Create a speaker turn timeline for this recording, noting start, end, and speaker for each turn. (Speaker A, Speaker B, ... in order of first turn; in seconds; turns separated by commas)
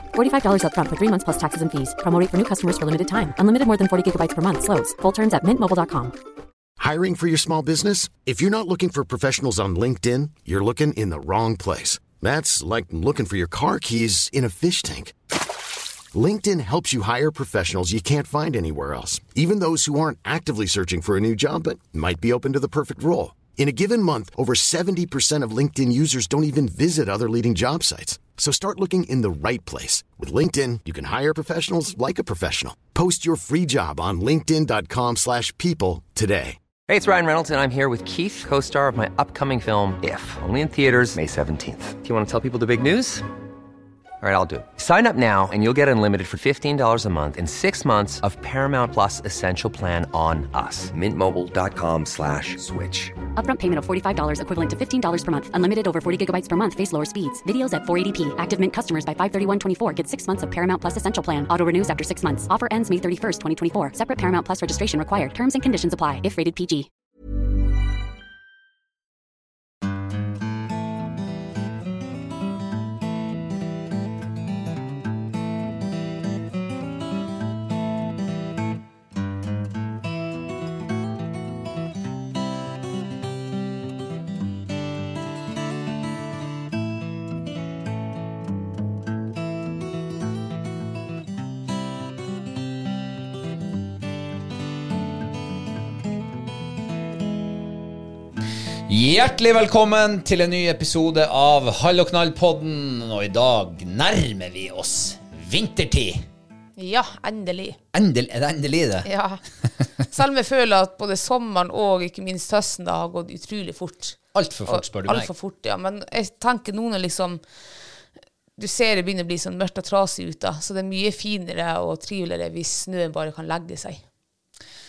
Speaker A: 0.1-6.1, Speaker B: 6.8-15.2, Speaker B: 16.1-36.6, Speaker C: 36.9-43.2, Speaker C: 44.2-53.1, Speaker A: 53.4-66.9, Speaker D: 98.9-106.3, Speaker E: 106.8-107.8, Speaker D: 107.9-109.1, Speaker E: 109.0-109.4, Speaker E: 110.0-117.4, Speaker D: 114.3-115.3, Speaker E: 118.6-124.0